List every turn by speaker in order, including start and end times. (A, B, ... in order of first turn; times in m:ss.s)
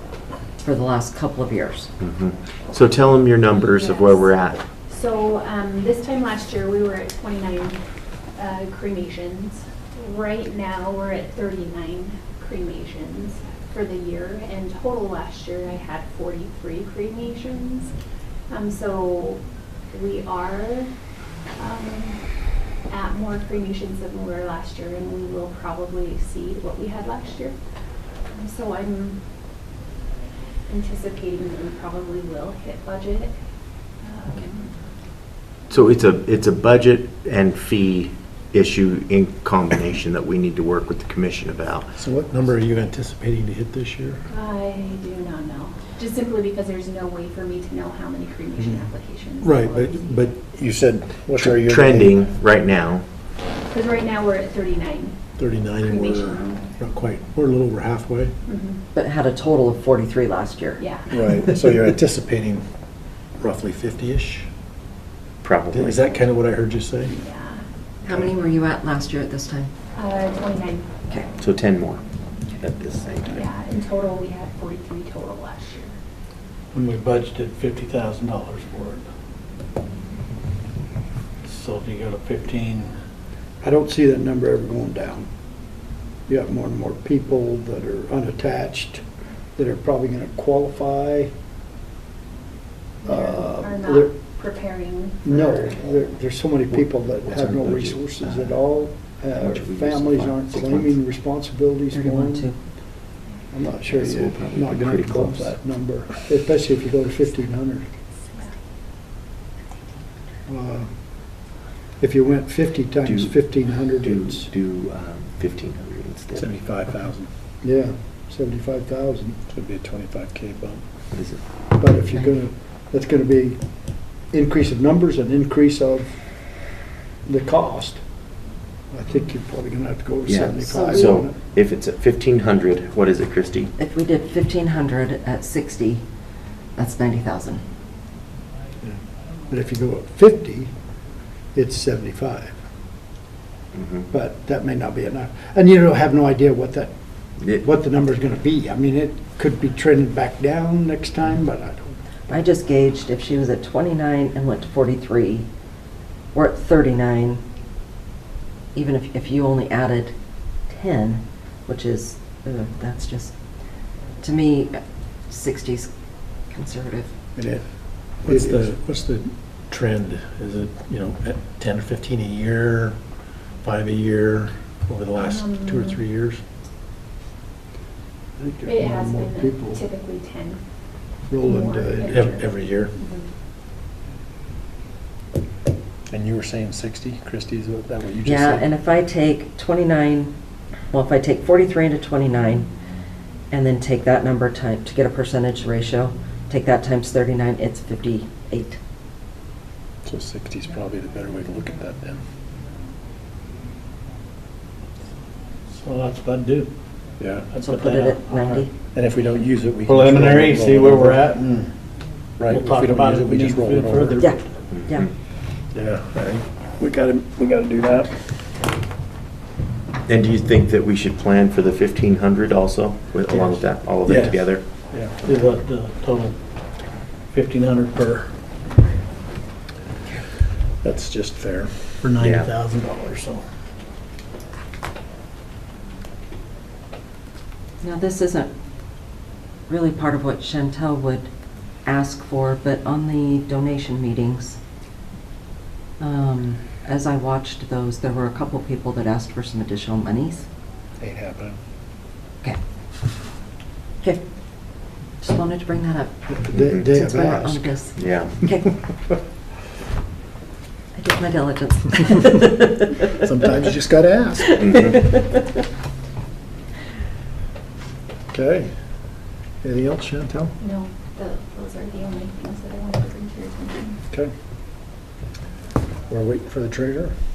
0:00.6-0:01.9 A
0:02.0-0:04.6 B
0:03.5-0:07.8 C
0:08.4-0:17.9 C
0:18.5-0:19.4 C
0:19.9-0:20.9 C
0:21.6-0:22.2 C
0:22.9-0:27.6 C
0:28.3-0:29.2 C
0:30.7-0:33.3 C
0:34.0-0:34.7 C
0:35.7-0:41.9 B
0:42.0-0:44.2 D
0:44.3-0:50.3 C
0:49.4-0:52.2 D
0:51.4-0:53.0 B
0:53.7-0:55.2 C
0:55.4-0:58.3 D
0:55.7-0:56.7 C
0:58.5-0:58.8 C
0:58.9-1:01.4 A
1:00.8-1:01.2 C
1:01.1-1:02.7 D
1:03.4-1:04.5 D
1:05.4-1:06.2 B
1:05.7-1:07.2 D
1:07.0-1:07.6 C
1:08.0-1:09.7 A
1:10.0-1:10.9 C
1:11.4-1:12.0 B
1:12.6-1:13.4 B
1:13.3-1:16.0 C
1:16.8-1:19.0 E
1:17.2-1:18.5 D
1:21.5-1:22.7 E
1:23.6-1:25.3 F
1:26.3-1:29.0 F
1:29.6-1:31.3 F
1:33.0-1:35.7 C
1:33.1-1:34.1 F
1:35.2-1:42.5 F
1:36.7-1:38.6 B
1:39.4-1:40.9 B
1:41.9-1:42.6 A
1:43.5-1:47.9 F
1:43.8-1:45.5 B
1:50.5-1:50.9 F
1:52.0-1:54.5 F
1:53.1-1:56.5 B
1:56.3-1:57.3 D
1:57.6-1:59.4 F
1:59.5-2:00.8 D
2:01.1-2:01.4 B
2:01.8-2:06.2 F
2:07.2-2:08.0 F
2:08.9-2:11.4 F
2:10.3-2:13.7 B
2:10.7-2:11.2 A
2:13.8-2:16.0 A
2:16.8-2:17.6 A
2:19.5-2:20.7 F
2:21.5-2:22.5 F
2:24.1-2:32.0 F
2:32.3-2:35.5 A
2:36.3-2:37.4 A
2:38.8-2:40.1 A
2:40.7-2:43.3 A
2:44.2-2:45.9 A
2:46.5-2:47.1 A
2:47.4-2:48.7 F
2:48.2-2:53.0 D
2:53.6-2:56.4 D
2:55.2-2:56.0 C
2:58.4-2:59.8 F
2:58.6-3:00.6 C
3:01.3-3:02.2 F
3:01.4-3:03.3 C
3:02.1-3:03.0 D
3:06.1-3:08.7 D
3:08.2-3:10.3 A
3:10.9-3:12.7 A
3:13.5-3:18.8 A
3:20.0-3:22.2 D
3:25.8-3:26.7 E
3:27.2-3:27.8 D
3:27.6-3:28.7 A
3:27.7-3:28.6 E
3:28.9-3:31.5 D
3:29.9-3:31.7 E
3:32.4-3:34.4 D
3:32.5-3:34.2 E
3:34.2-3:35.1 A
3:34.7-3:35.1 B
3:35.7-3:38.1 D
3:40.1-3:44.9 B
3:43.3-3:46.4 D
3:47.3-3:48.3 D
3:50.8-3:53.4 D
3:52.2-3:52.5 B
3:57.8-3:58.5 A
3:59.7-4:01.3 A
4:01.8-4:04.6 A
4:06.0-4:10.5 A
4:11.0-4:11.6 D
4:15.2-4:18.7 A
4:16.3-4:17.8 F
4:18.0-4:18.4 B
4:21.0-4:23.2 A
4:23.2-4:24.9 D
4:24.4-4:25.5 A
4:24.6-4:25.0 B
4:28.3-4:28.7 D
4:29.6-4:30.5 D
4:30.6-4:34.0 C
4:36.1-4:37.2 D